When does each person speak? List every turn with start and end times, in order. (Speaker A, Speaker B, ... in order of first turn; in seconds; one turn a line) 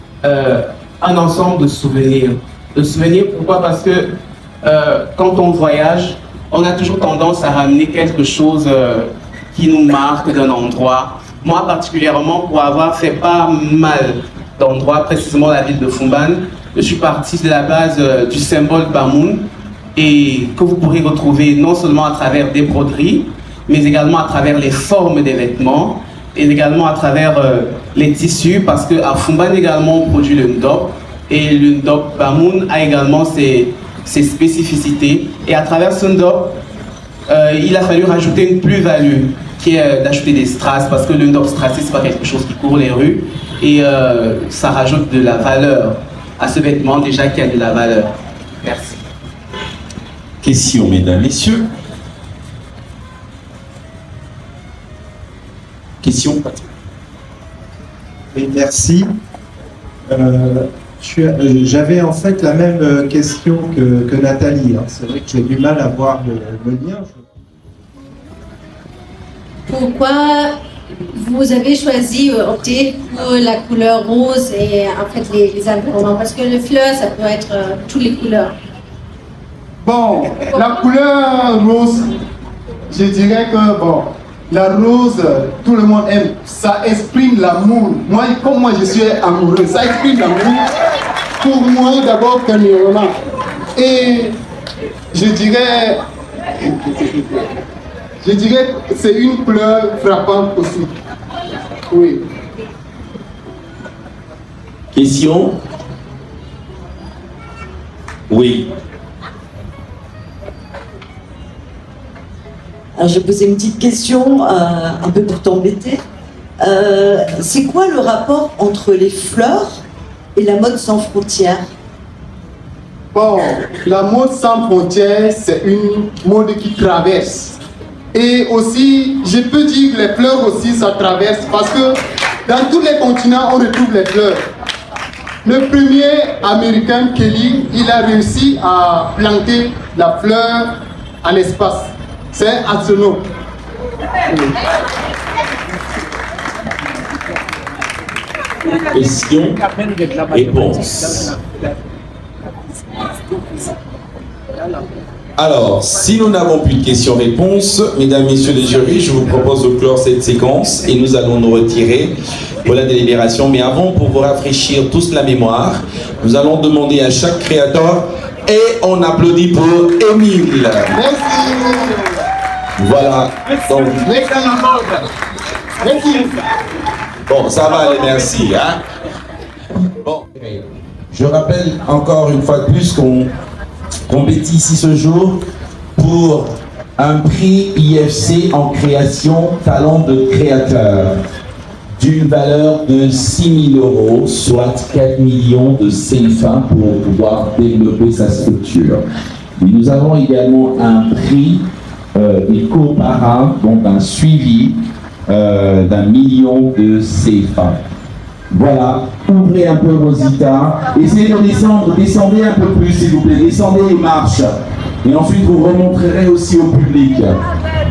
Speaker A: 0.2-36.6
Speaker A: 37.3-49.0
Speaker B: 50.4-51.7
Speaker B: 56.0-56.6
Speaker C: 58.3-59.1
Speaker C: 60.1-67.2
Speaker D: 69.7-70.6
Speaker D: 71.1-78.5
Speaker E: 79.8-82.1
Speaker E: 82.9-90.6
Speaker E: 91.4-93.1
Speaker E: 93.8-94.3
Speaker E: 95.1-96.0
Speaker E: 96.6-97.2
Speaker E: 98.2-100.9
Speaker E: 101.9-102.2
Speaker B: 104.9-105.6
Speaker B: 108.3-108.7
Speaker F: 113.0-116.0
Speaker F: 116.6-119.8
Speaker F: 120.3-121.7
Speaker E: 123.1-127.6
Speaker E: 128.1-131.9
Speaker E: 132.5-134.4
Speaker E: 135.4-143.2
Speaker B: 148.9-149.6
Speaker B: 150.3-151.3
Speaker B: 155.4-170.9
Speaker E: 170.9-171.9
Speaker B: 172.8-174.1
Speaker E: 174.0-174.9
Speaker E: 175.8-176.3
Speaker B: 177.3-178.8
Speaker B: 180.0-183.3
Speaker B: 184.1-185.4
Speaker B: 185.9-191.2
Speaker B: 192.0-199.0
Speaker B: 199.6-207.8
Speaker B: 208.5-217.4